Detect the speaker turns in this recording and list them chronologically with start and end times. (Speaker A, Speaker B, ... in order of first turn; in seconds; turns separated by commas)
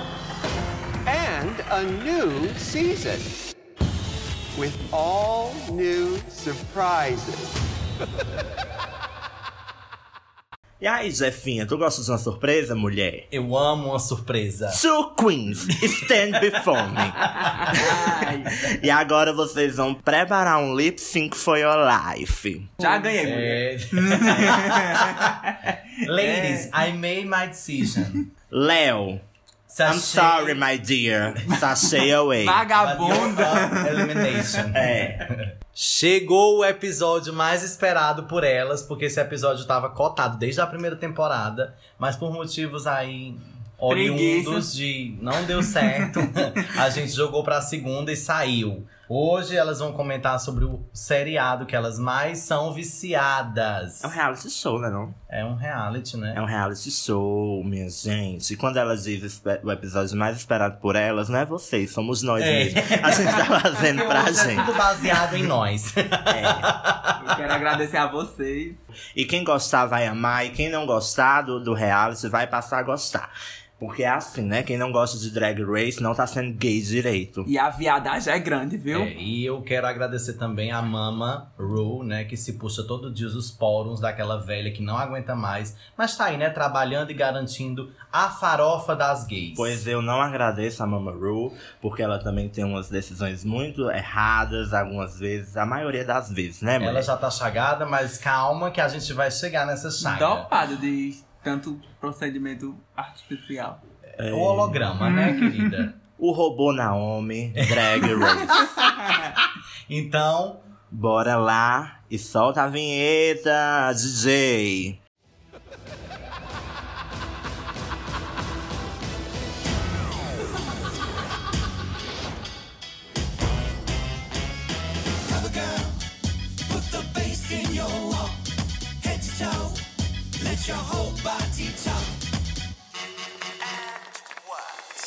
Speaker A: 1.1-3.3, Speaker A: 4.5-7.5, Speaker B: 10.8-13.3, Speaker C: 13.3-14.8, Speaker B: 14.7-22.7, Speaker C: 17.4-17.7, Speaker D: 17.6-18.5, Speaker D: 22.8-26.7, Speaker C: 22.8-25.4, Speaker C: 26.0-28.3, Speaker B: 28.5-29.2, Speaker C: 29.7-30.6, Speaker B: 29.8-32.7, Speaker D: 32.4-34.6, Speaker C: 32.8-54.1, Speaker B: 34.7-35.3, Speaker D: 43.9-44.7, Speaker B: 54.0-55.2, Speaker C: 55.3-56.4, Speaker B: 56.3-64.8, Speaker C: 62.4-67.3, Speaker B: 66.3-66.7, Speaker D: 67.2-68.8, Speaker B: 69.1-77.5, Speaker D: 77.5-79.1, Speaker C: 78.9-89.8, Speaker B: 89.5-97.1, Speaker C: 96.8-100.5, Speaker D: 100.0-103.8, Speaker B: 104.2-104.8, Speaker C: 104.2-105.9, Speaker D: 105.0-105.7, Speaker B: 106.2-108.7, Speaker C: 107.6-108.7, Speaker C: 109.9-110.6, Speaker B: 110.9-115.0, Speaker A: 125.3-125.9, Speaker A: 126.7-128.3, Speaker A: 129.0-129.8, Speaker A: 130.4-132.0, Speaker A: 133.9-134.2